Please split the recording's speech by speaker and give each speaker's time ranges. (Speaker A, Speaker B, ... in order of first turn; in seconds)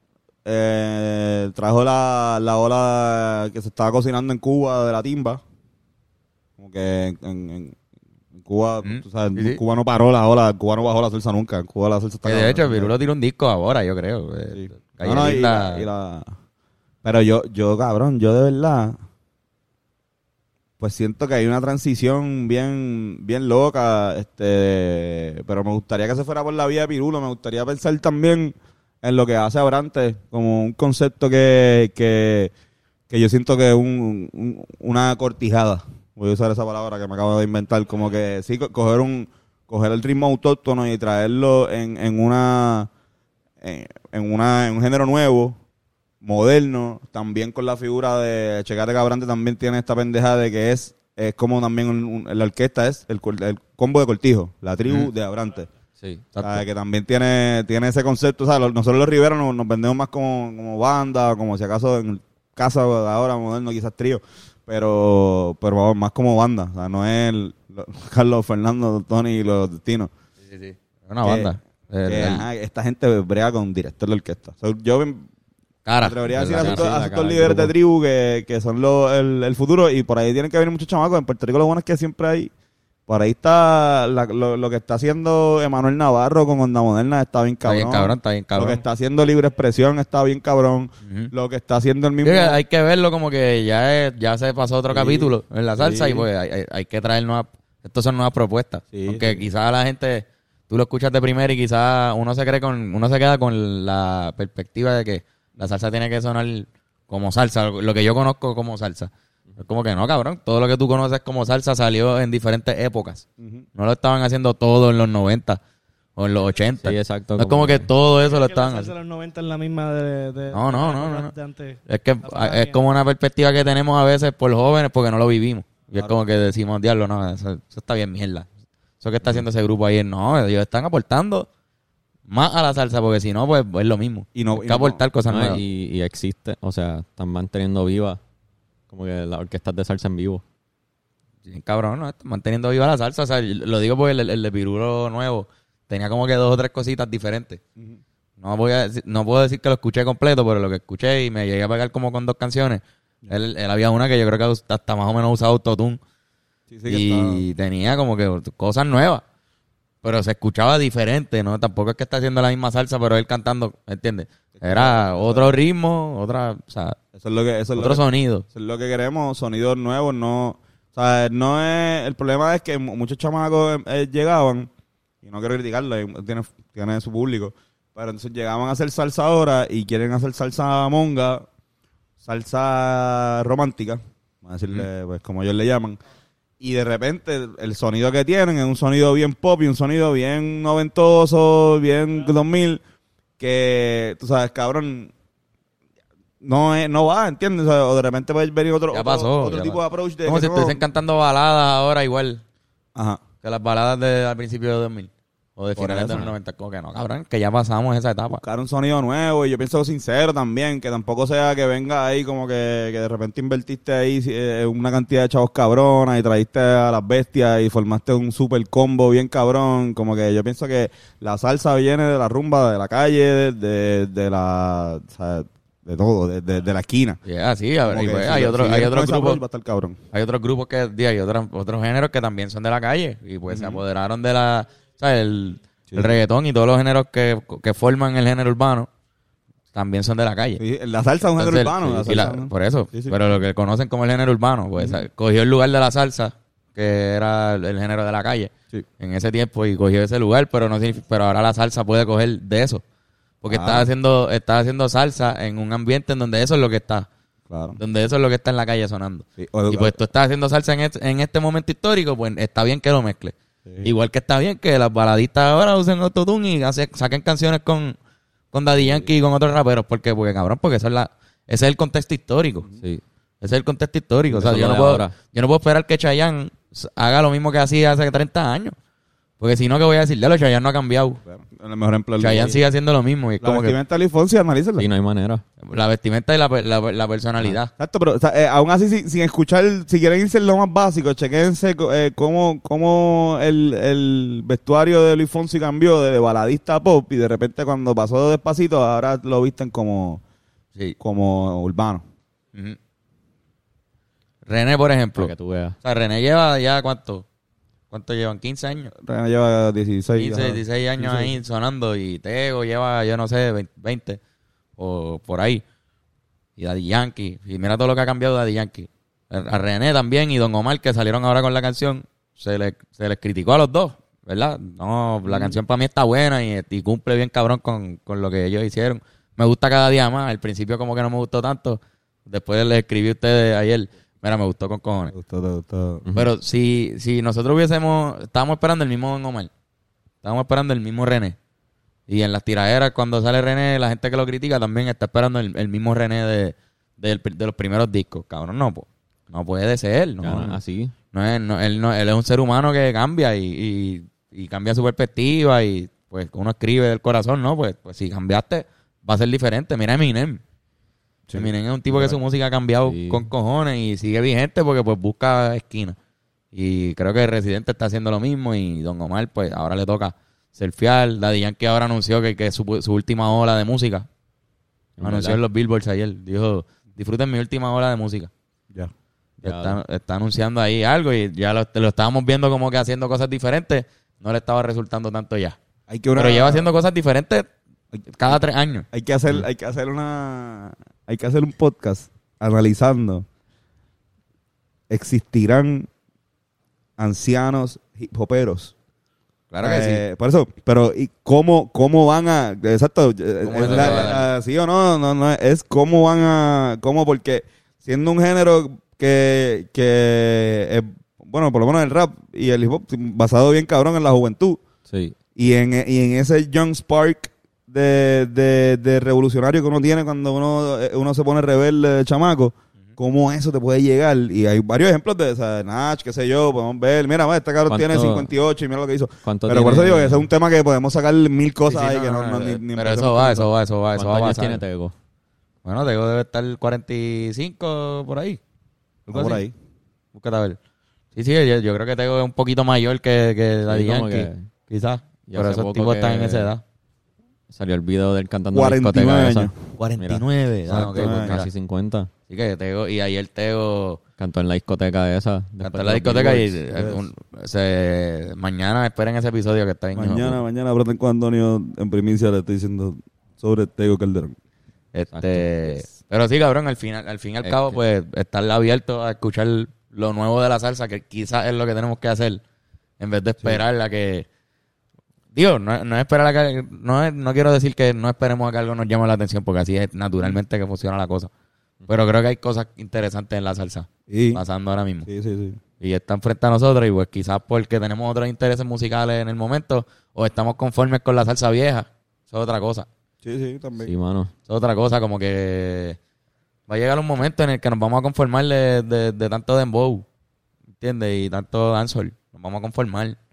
Speaker A: 0.5-5.4, 6.6-7.8, 8.4-12.9, 14.5-16.3, 17.0-19.0, 20.8-32.5, 33.1-42.9, 43.6-45.6, 46.2-55.7, 56.4-70.1, 71.2-71.5, 72.1-75.3, 76.0-82.5, 83.1-92.6, 94.9-96.3, 98.9-99.5, 113.4-113.7, 134.3-135.0, 156.7-157.4, 164.6-165.6, 167.1-174.7, 175.2-181.5, 182.2-186.0, 186.6-192.8, 193.4-195.1, 196.4-200.8, 202.9-203.2, 205.8-206.3, 208.3-227.2, 227.9-230.0, 233.5-233.8, 235.9-236.2, 240.6-243.4, 253.5-253.9, 257.5-257.8, 259.4-260.0, 281.2-282.6, 283.4-284.9, 287.8-300.2, 301.0-302.0, 308.9-311.4, 325.3-325.6, 335.1-336.0, 350.3-350.6, 361.3-362.2, 385.9-386.7, 387.9-388.4, 388.9-393.2, 394.9-395.9, 397.0-398.7, 399.6-414.6, 415.4-433.5, 439.1-439.5, 448.5-449.6, 450.7-451.4, 456.7-457.1, 459.9-464.4, 484.1-484.4, 485.1-485.6, 493.2-493.9
Speaker B: 8.8-9.6, 12.2-15.9, 56.4-56.6, 70.4-72.5, 75.9-77.0, 87.7-88.8, 91.0-91.3, 92.2-115.6, 116.2-118.9, 120.5-121.3, 121.9-128.5, 129.0-131.5, 132.3-135.6, 141.5-147.6, 148.4-156.0, 156.9-159.2, 160.0-167.0, 167.8-168.4, 198.9-202.4, 203.4-208.4, 227.2-229.4, 230.1-238.9, 239.7-240.6, 241.4-252.8, 253.4-257.1, 257.8-268.0, 268.5-272.7, 273.4-278.8, 279.4-281.2, 282.2-283.8, 285.6-287.7, 304.5-307.3, 307.9-308.9, 310.2-314.2, 314.8-315.6, 316.6-335.1, 336.1-339.5, 340.2-341.4, 342.1-350.6, 351.1-360.4, 361.4-366.0, 366.5-374.1, 375.0-378.3, 379.4-385.6, 386.1-387.5, 388.1-388.9, 399.5-400.0, 403.4-404.3, 431.7-434.6, 435.6-438.4, 439.1-439.4, 440.1-440.6, 441.1-446.6, 449.8-451.5, 452.3-454.0, 455.6-460.4, 464.9-472.4, 473.0-474.3, 475.3-481.3, 481.9-485.1, 485.8-492.9, 494.5-496.0, 496.7-500.1, 500.8-503.2
Speaker C: 56.0-56.3, 76.4-77.7, 116.8-117.9, 135.3-138.2, 138.9-140.4, 274.3-275.1, 284.8-285.4, 305.2-305.8, 336.1-336.3, 350.2-350.9, 362.8-363.3, 375.0-375.4, 379.4-379.8, 403.7-404.1, 414.9-415.1, 427.7-428.3, 429.2-430.3, 433.9-434.9, 443.7-444.5, 445.3-446.5, 447.5-452.1, 454.2-456.6, 465.1-465.8, 467.4-467.8, 493.8-494.3
Speaker D: 118.2-122.8